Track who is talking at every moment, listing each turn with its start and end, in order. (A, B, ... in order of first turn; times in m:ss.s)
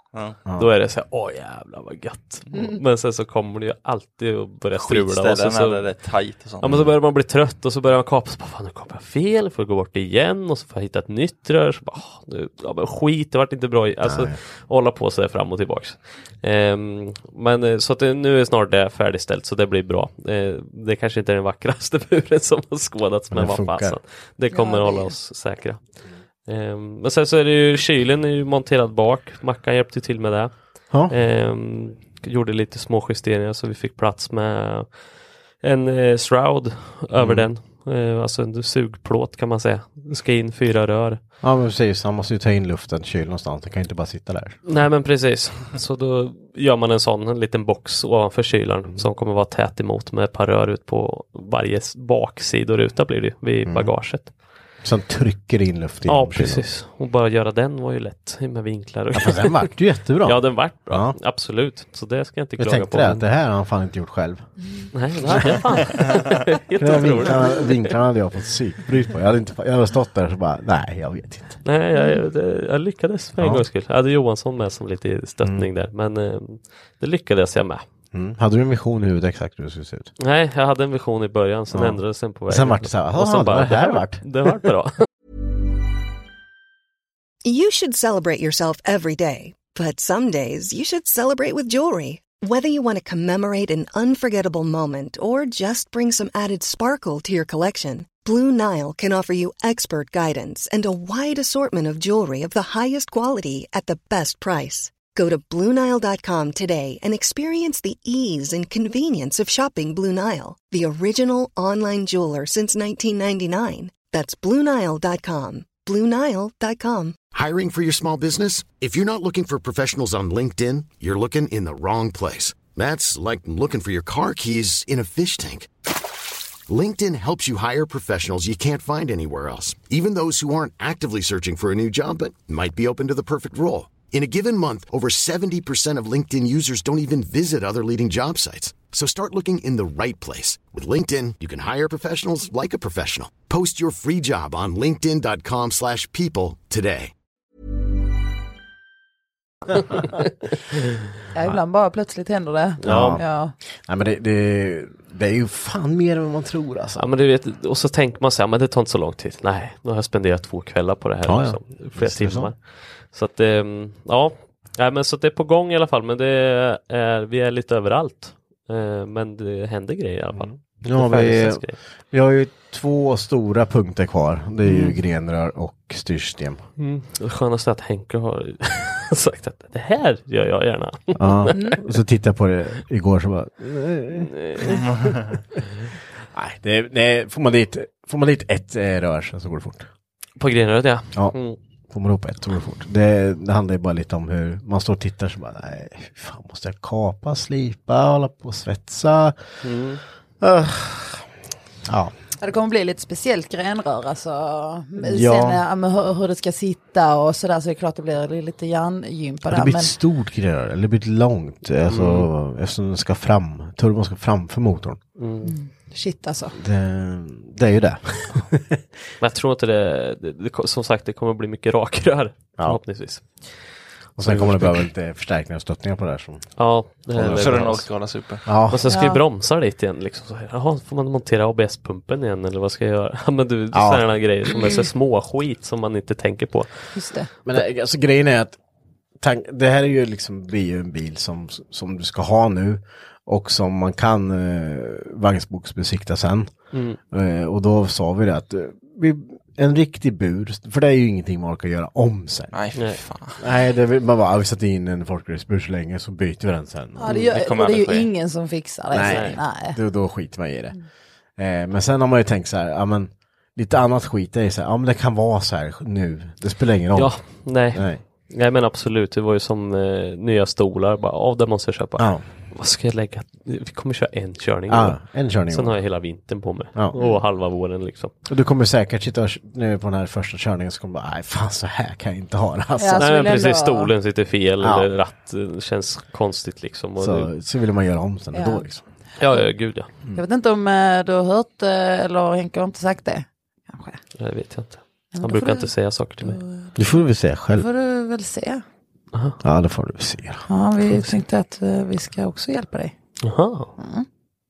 0:00.4-0:00.7 A
0:00.6-0:05.8 B
0:04.8-0:06.6 C
0:06.6-0:25.8 B
0:06.6-0:06.9 A
0:14.0-0:14.4 A
0:23.3-0:24.0 A
0:24.5-0:25.1 D
0:26.5-0:30.6 B
0:31.1-0:34.9 B
0:35.6-0:41.2 B
0:37.2-0:37.5 A
0:41.4-0:44.6 A
0:44.6-0:54.3 B
0:53.6-0:54.0 A
0:54.8-0:56.6 A
0:56.1-0:59.7 B
0:59.1-1:01.2 A
1:00.2-1:03.2 B
1:02.6-1:04.4 A
1:04.9-1:07.9 B
1:05.3-1:05.6 A
1:06.8-1:11.6 A
1:11.6-1:17.8 B
1:12.0-1:12.2 D
1:13.4-1:13.6 A
1:18.1-1:20.1 A
1:20.2-1:25.0 B
1:21.7-1:24.2 A
1:27.4-1:57.2 E
1:57.3-2:05.7 F
2:06.7-2:27.1 F
2:31.3-2:33.5 D
2:32.8-2:33.2 B
2:32.8-2:37.0 A
2:37.0-2:42.6 B
2:41.2-2:42.5 A
2:43.1-2:51.8 B
2:50.3-2:56.6 A
2:54.7-2:55.0 B
2:56.8-3:01.8 B
3:01.2-3:04.9 A
3:01.5-3:01.8 D
3:04.1-3:04.9 B
3:06.3-3:09.9 A
3:10.4-3:11.6 B
3:11.9-3:19.4 A
3:19.6-3:20.0 B
3:20.4-3:21.3 A
3:21.8-3:22.1 A
3:22.4-3:29.9 D
3:25.0-3:25.6 A
3:29.5-3:35.0 A
3:31.9-3:32.3 B
3:35.2-3:35.5 B
3:35.4-3:36.6 D
3:36.6-3:38.8 A
3:39.2-3:43.4 B
3:44.2-3:46.5 A
3:44.2-3:44.8 B
3:46.6-3:47.8 B
3:47.1-3:47.8 A
3:47.2-3:48.4 C
3:48.4-3:48.9 A
3:48.7-3:56.7 B
3:48.9-3:49.2 D
3:53.7-3:54.0 A
3:56.9-3:57.3 D
3:57.4-3:58.6 A
3:59.2-4:06.5 A
4:06.7-4:07.0 B
4:07.1-4:12.6 A
4:12.5-4:13.4 C
4:13.4-4:17.3 A
4:17.0-4:19.8 D
4:17.1-4:18.1 C
4:18.9-4:20.8 A
4:19.0-4:19.4 B
4:21.4-4:28.0 A
4:27.0-4:35.0 B
4:32.0-4:32.2 A
4:34.7-4:35.8 A
4:35.5-4:38.1 B
4:36.9-4:37.2 D
4:38.3-4:43.1 A
4:42.8-4:43.9 D
4:43.0-4:47.3 B
4:44.6-4:44.9 A
4:47.0-4:48.8 A
4:48.3-4:48.6 D
4:49.2-4:49.9 B
4:50.1-4:54.0 D
4:54.2-4:56.4 B
4:55.1-4:55.7 D
4:56.2-4:56.8 D
4:56.8-4:57.7 A
4:57.5-4:58.6 D
4:59.1-4:59.4 B
4:59.4-5:00.5 A
5:00.5-5:02.9 D
5:03.2-5:03.7 B
5:03.8-5:04.0 D